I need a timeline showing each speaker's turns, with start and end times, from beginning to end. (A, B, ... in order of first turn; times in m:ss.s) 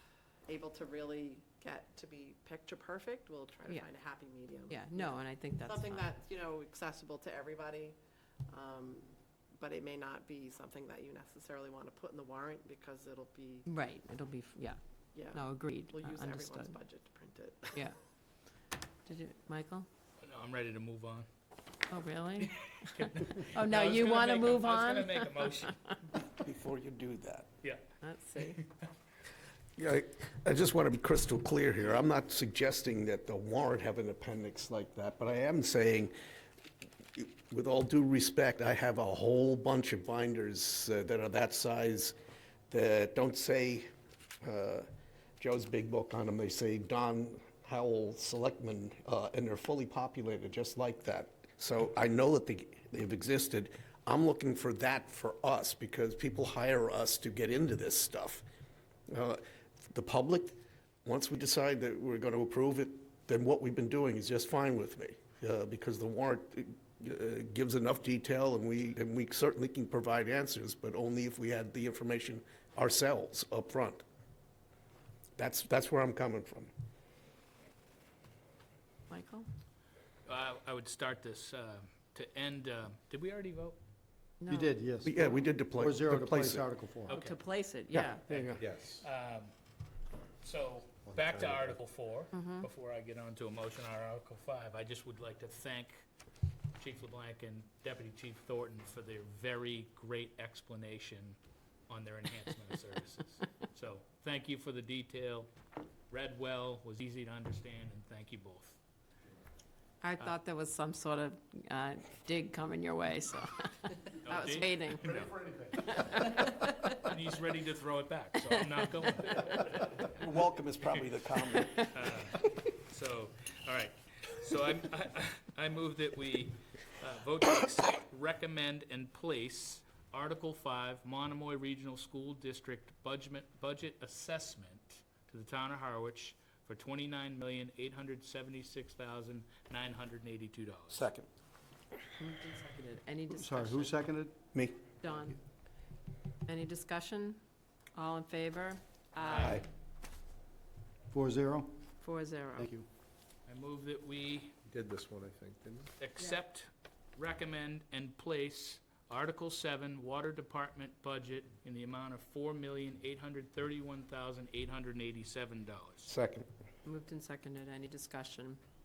0:00.5-0:08.0 A
0:04.7-0:06.1 B
0:08.5-0:13.7 A
0:13.6-0:16.8 B
0:15.1-0:17.8 A
0:19.0-0:19.9 B
0:20.2-0:21.3 C
0:21.9-0:25.9 B
0:22.4-0:25.8 C
0:26.4-0:27.5 D
0:28.0-0:28.6 B
0:29.8-0:36.1 D
0:37.2-0:42.1 D
0:42.7-0:43.9 D
0:44.4-0:44.8 D
0:45.4-0:58.4 D
0:59.1-1:14.0 D
1:15.4-1:16.7 D
1:19.1-1:19.5 B
1:20.2-1:23.8 C
1:24.4-1:24.7 B
1:24.5-1:27.1 E
1:25.0-1:26.6 D
1:27.1-1:28.3 B
1:27.1-1:27.4 C
1:27.9-1:28.6 D
1:28.3-1:29.5 C
1:28.6-1:29.0 F
1:30.4-1:36.0 C
1:31.1-1:31.8 F
1:32.3-1:32.6 B
1:36.8-1:41.4 C
1:41.9-1:45.5 C
1:46.1-1:48.8 C
1:50.0-1:55.2 B
1:54.2-1:55.3 C
1:55.8-1:57.0 B
1:56.8-2:00.2 C
2:00.2-2:02.2 D
2:01.5-2:01.9 B
2:01.9-2:21.0 C
2:20.9-2:21.3 D
2:22.2-2:23.9 B
2:23.3-2:24.4 E
2:24.5-2:24.9 D
2:25.0-2:25.4 B
2:26.4-2:27.4 B
2:27.9-2:29.6 B
2:29.2-2:29.6 C
2:29.2-2:29.6 D
2:31.1-2:31.8 E
2:32.0-2:32.7 B
2:32.6-2:32.9 E
2:33.5-2:34.6 C
2:34.7-2:35.9 F
2:36.0-2:46.1 C
2:46.0-2:46.5 D
2:46.8-2:48.6 B